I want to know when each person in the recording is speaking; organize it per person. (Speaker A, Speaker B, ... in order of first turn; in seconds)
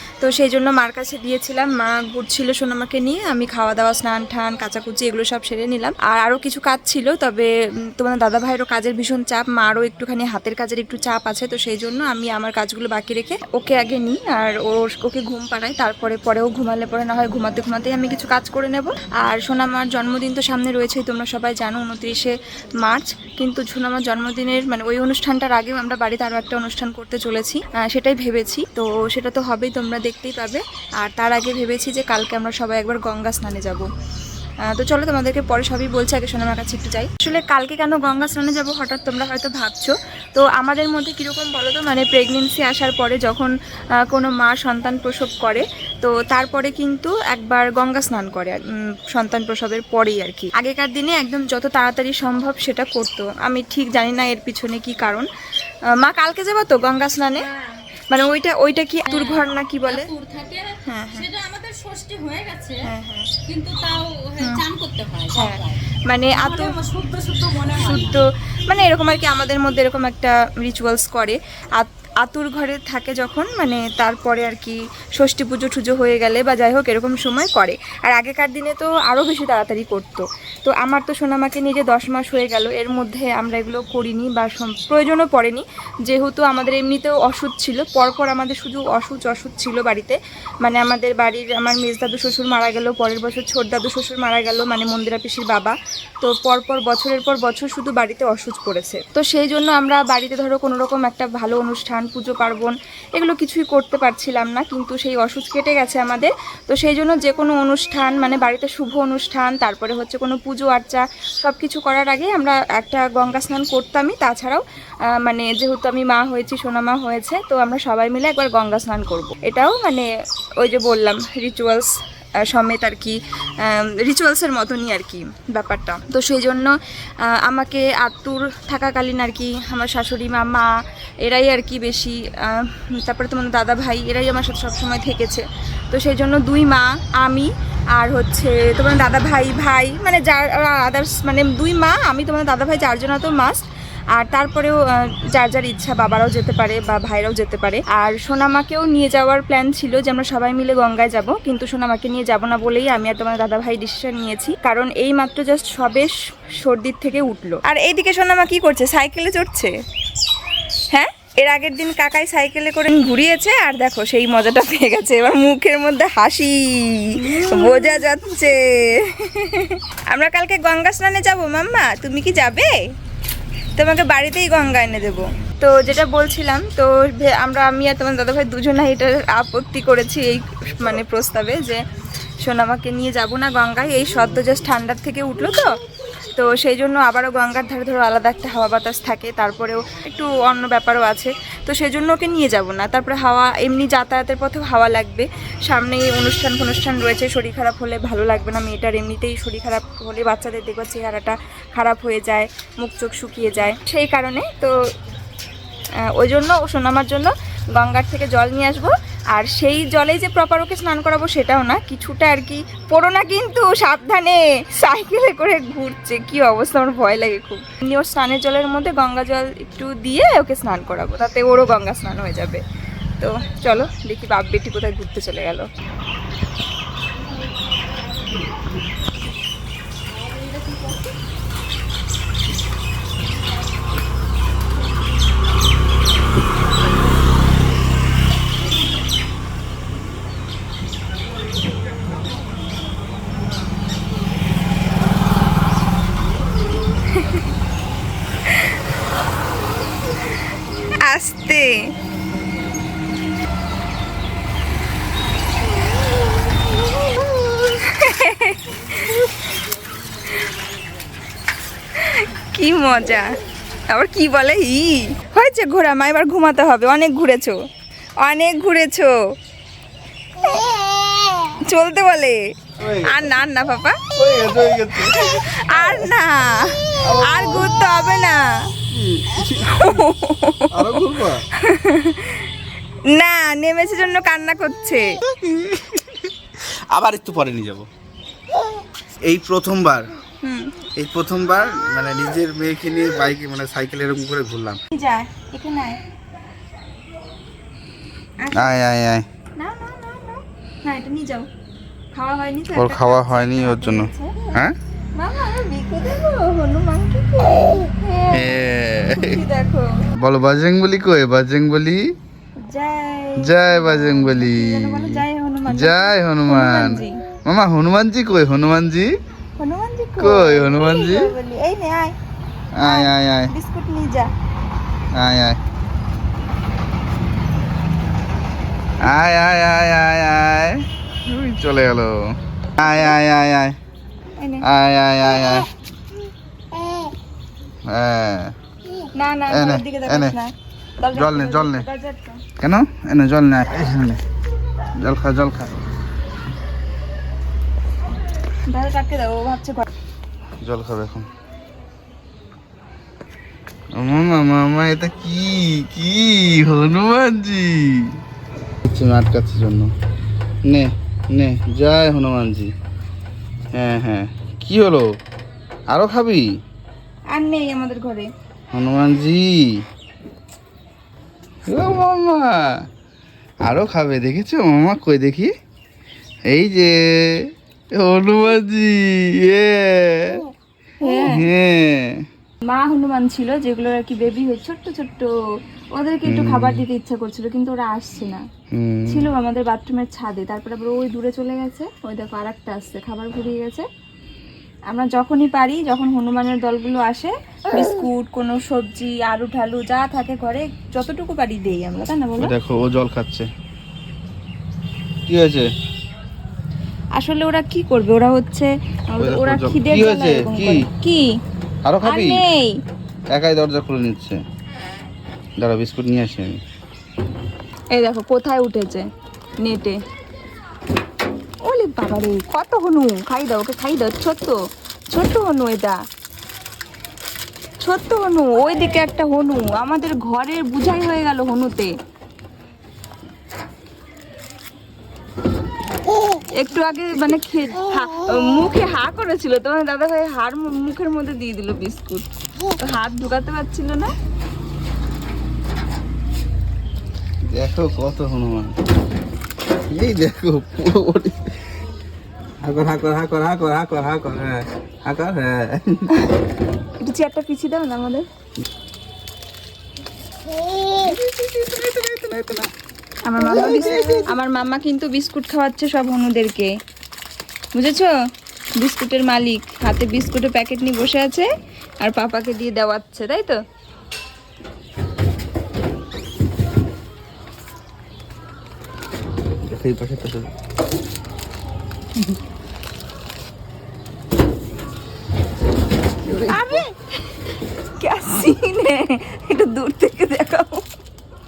Speaker A: 0.2-33.9, 34.7-43.5, 44.0-55.3, 56.0-57.5, 58.1-60.1, 60.9-61.3, 62.8-63.3, 65.3-66.7, 67.7-120.1, 120.6-144.8, 145.3-159.7, 160.9-172.7, 173.8-181.8, 182.4-185.7, 186.3-204.7, 206.1-222.6, 223.2-225.7, 247.1-247.4, 250.8-251.9, 257.7-259.1, 262.0-263.3, 263.9-267.6, 268.2-269.2, 271.4-274.0, 275.0-278.5, 279.6-281.0, 281.6-282.5, 283.1-285.1, 290.4-290.8, 294.9-296.0, 298.4-298.7, 299.6-301.5, 302.1-304.4, 305.1-308.5, 309.1-309.9, 312.6-317.2, 319.6-322.1, 322.8-324.3, 332.8-333.2, 334.4-334.6, 339.1-342.4, 348.7-349.9, 367.3-368.3, 381.0-381.5, 382.6-385.3, 385.9-388.5, 389.1-393.9, 394.9-402.5, 407.1-411.3, 412.0-412.8, 417.9-419.1, 419.6-420.0, 421.6-424.6, 425.1-426.0, 427.8-431.9, 436.5-442.3, 442.8-444.1, 457.0-458.3, 463.2-466.7, 467.8-468.1, 468.8-471.5, 472.0-473.6, 486.5-486.9, 488.0-490.8
Speaker B: 59.1-62.8, 63.5-68.2, 167.2-168.0
Speaker C: 272.8-273.3, 274.1-276.1, 277.0-277.7, 278.9-280.0, 280.7-281.4, 285.3-286.3, 286.9-287.9, 289.2-290.1, 291.0-294.8, 298.5-299.3, 302.8-304.8, 308.3-309.4, 310.2-312.0, 313.4-319.1, 320.2-321.3, 322.8-323.5, 325.1-325.6, 329.0-332.2, 332.8-333.8, 334.6-335.7, 337.9-338.5, 339.5-340.4, 341.1-341.9, 342.6-344.2, 345.0-345.8, 350.6-351.3, 353.9-358.1, 358.9-359.9, 360.7-362.7, 363.7-365.1, 365.9-366.5, 368.7-369.8, 371.7-372.9, 373.6-375.5, 376.5-377.4, 378.0-380.4, 381.2-382.2, 386.2-386.9, 388.7-389.3, 402.4-403.5, 405.3-405.7, 409.2-410.8, 411.9-412.4, 413.3-414.4, 415.6-416.6, 447.5-448.7, 449.9-451.5, 452.6-456.1, 460.9-462.7, 463.4-464.3, 479.7-480.5, 486.3-486.8